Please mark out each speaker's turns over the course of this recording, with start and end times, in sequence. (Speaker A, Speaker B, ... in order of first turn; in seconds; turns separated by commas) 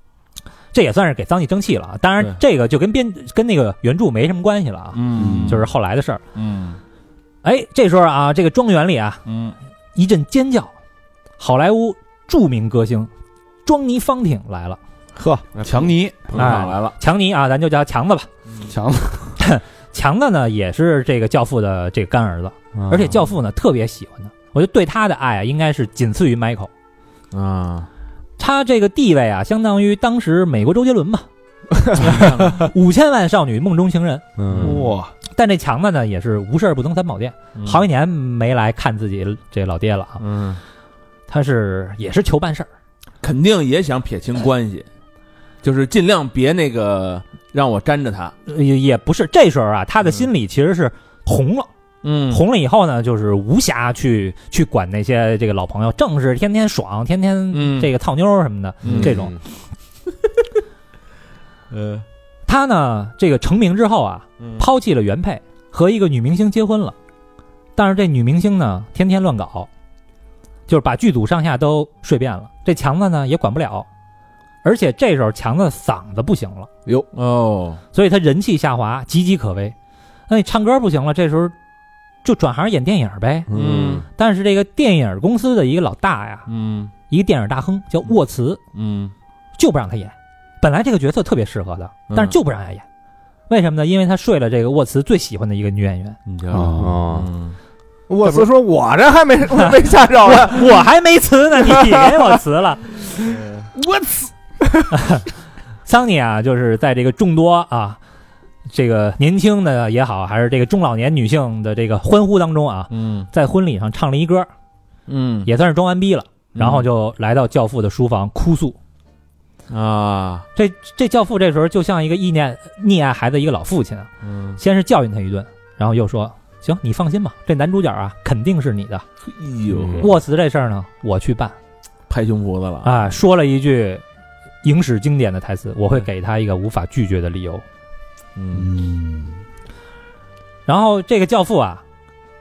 Speaker A: 0.7-6.2, Speaker B: 4.9-5.7, Speaker C: 5.2-5.6, Speaker B: 6.3-6.8, Speaker A: 7.4-9.2, Speaker B: 9.3-9.6, Speaker A: 9.9-10.7, Speaker A: 11.4-13.1, Speaker A: 13.7-14.8, Speaker D: 15.2-15.4, Speaker B: 15.6-16.9, Speaker C: 15.6-16.4, Speaker A: 16.3-18.3, Speaker C: 18.7-19.4, Speaker A: 19.4-26.7, Speaker D: 22.8-23.2, Speaker B: 27.3-27.9, Speaker A: 28.4-31.3, Speaker B: 32.0-32.6, Speaker A: 32.0-34.2, Speaker D: 34.4-34.9, Speaker B: 34.5-34.9, Speaker C: 34.6-35.1, Speaker A: 35.3-40.2, Speaker B: 37.6-37.8, Speaker B: 40.2-40.6, Speaker A: 41.3-42.7, Speaker B: 43.2-44.9, Speaker B: 45.6-48.3, Speaker A: 48.5-51.7, Speaker B: 52.0-52.4, Speaker A: 52.3-59.4, Speaker B: 57.5-57.9, Speaker B: 58.8-59.2, Speaker D: 58.9-59.4, Speaker B: 61.7-62.0, Speaker A: 62.5-67.0, Speaker B: 64.4-64.7, Speaker A: 67.8-69.7, Speaker A: 70.7-73.9, Speaker A: 74.6-76.7, Speaker B: 77.1-77.8, Speaker A: 77.9-79.8, Speaker A: 80.3-81.5, Speaker A: 82.2-83.5, Speaker D: 83.5-84.1, Speaker B: 83.5-84.0, Speaker A: 84.1-86.5, Speaker B: 86.5-86.9, Speaker A: 87.1-88.6, Speaker B: 88.7-89.1, Speaker A: 89.6-92.8, Speaker B: 92.1-92.4, Speaker A: 93.5-96.2, Speaker B: 96.3-97.6, Speaker C: 96.5-97.0, Speaker D: 96.7-97.3, Speaker D: 98.1-100.9, Speaker A: 100.2-103.0, Speaker D: 101.7-102.2, Speaker B: 103.2-103.7, Speaker C: 103.8-104.3, Speaker A: 104.9-105.3, Speaker A: 105.9-108.0, Speaker A: 108.7-114.5, Speaker B: 112.9-113.3, Speaker B: 115.1-115.5, Speaker A: 115.5-118.8, Speaker B: 116.6-116.9, Speaker B: 119.7-120.5, Speaker A: 120.6-129.1, Speaker B: 124.2-124.6, Speaker B: 129.3-130.1, Speaker D: 129.8-130.1, Speaker A: 130.0-131.6, Speaker B: 132.1-132.9, Speaker A: 132.8-134.0, Speaker A: 134.6-137.6, Speaker B: 138.4-138.7, Speaker C: 138.5-139.4, Speaker A: 140.7-141.8